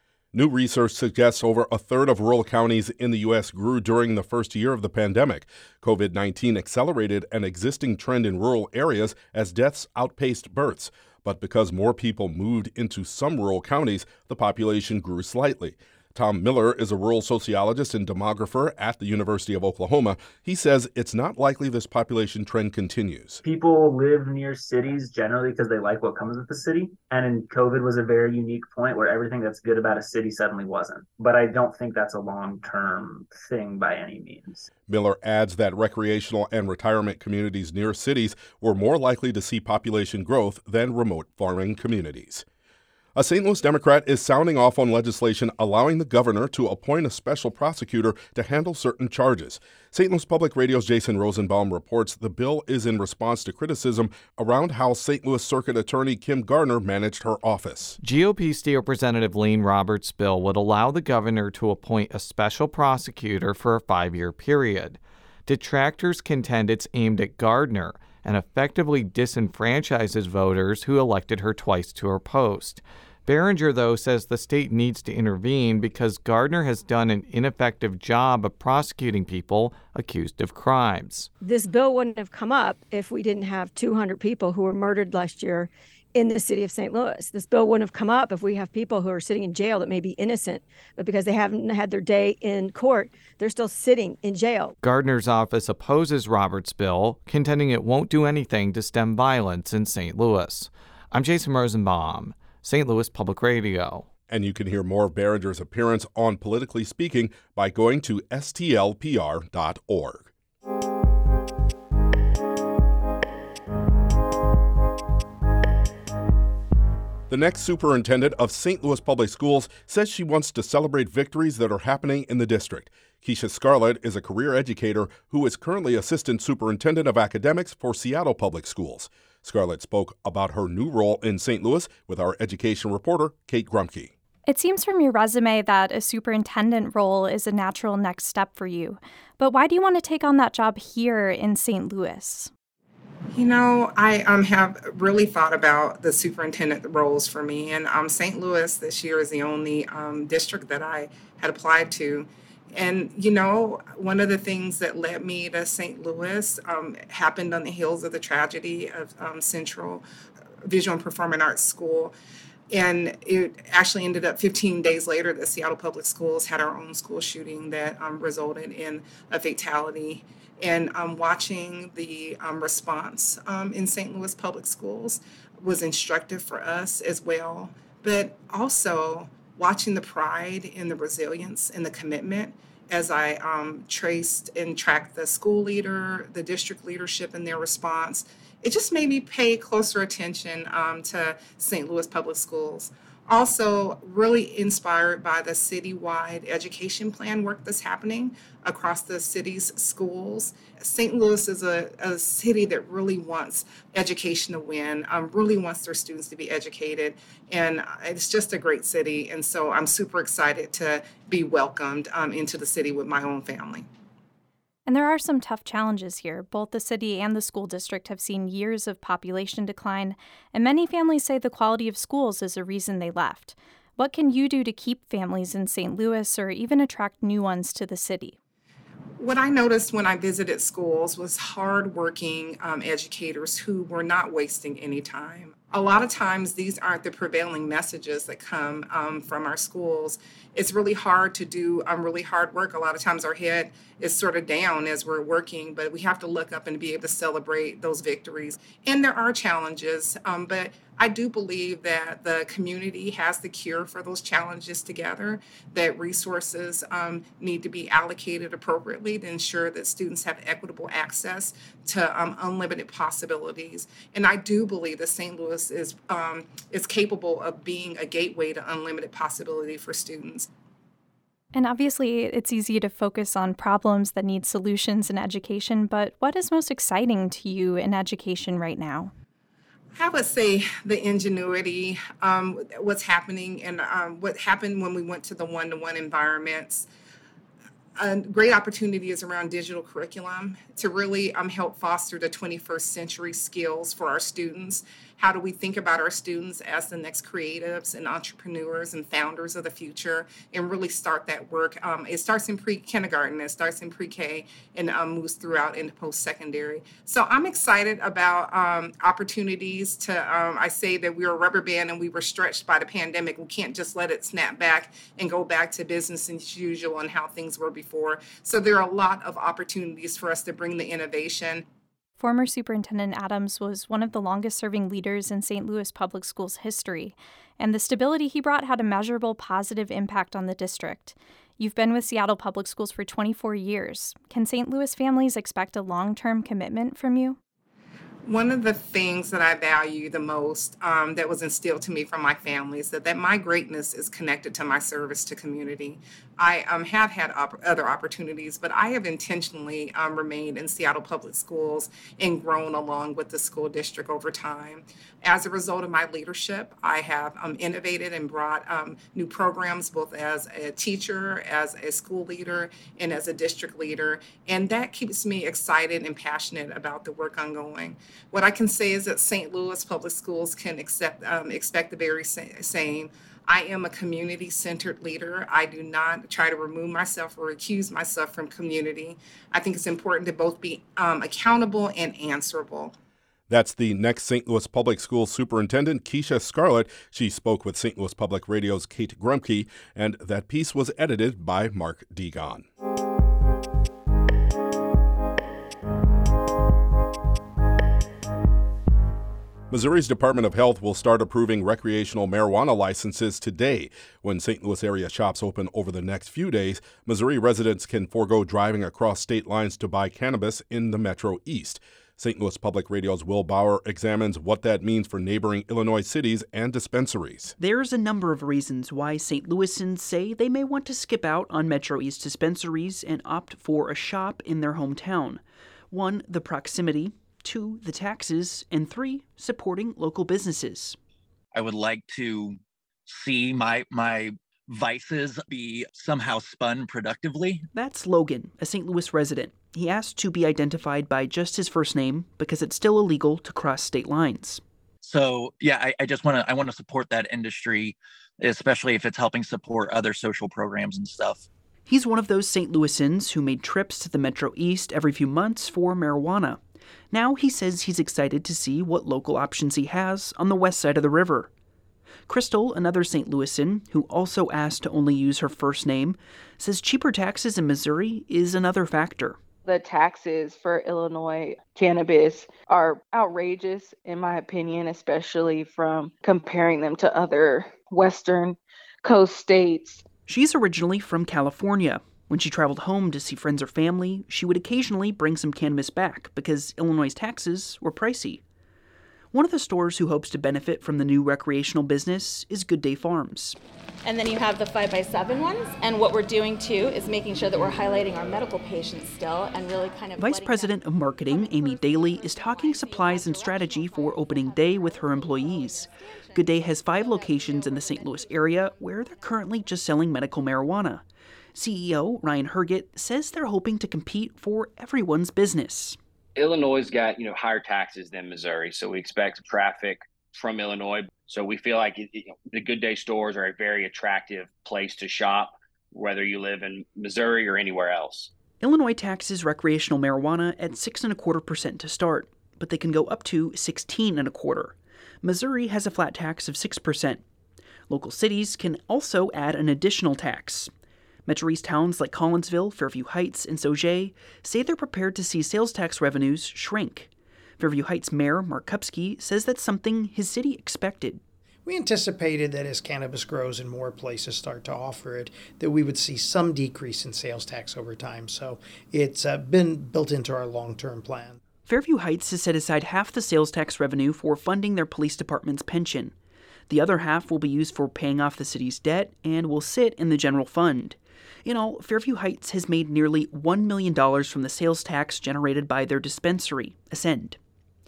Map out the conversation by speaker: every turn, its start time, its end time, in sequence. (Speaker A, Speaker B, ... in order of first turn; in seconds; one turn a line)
Speaker A: 0.3-23.4
Speaker B: 23.4-34.7
Speaker A: 34.9-42.4
Speaker A: 43.1-58.0
Speaker C: 58.0-81.3
Speaker D: 81.4-94.7
Speaker C: 94.8-104.1
Speaker A: 104.3-110.3
Speaker A: 117.3-134.1
Speaker E: 134.5-142.5
Speaker F: 143.3-160.0
Speaker F: 160.6-162.1
Speaker F: 162.7-213.8
Speaker E: 214.9-228.3
Speaker F: 229.2-270.5
Speaker E: 271.5-279.1
Speaker F: 279.9-286.9
Speaker F: 288.0-321.6
Speaker E: 322.2-337.4
Speaker F: 338.2-382.9
Speaker A: 383.5-392.6
Speaker A: 399.7-417.5
Speaker G: 417.6-431.0
Speaker H: 431.5-437.6
Speaker G: 437.7-444.6
Speaker H: 445.0-451.4
Speaker G: 451.9-456.6
Speaker G: 457.1-461.5
Speaker G: 462.3-469.4
Speaker I: 469.6-480.0
Speaker G: 480.3-488.4
Speaker G: 489.3-493.6
Speaker J: 494.0-509.4
Speaker G: 500.2-511.0
Speaker G: 511.5-516.0
Speaker K: 516.4-528.2
Speaker G: 528.6-537.2
Speaker G: 537.9-540.7
Speaker G: 541.2-551.2
Speaker L: 551.6-561.4
Speaker G: 561.6-566.1
Speaker G: 566.7-577.4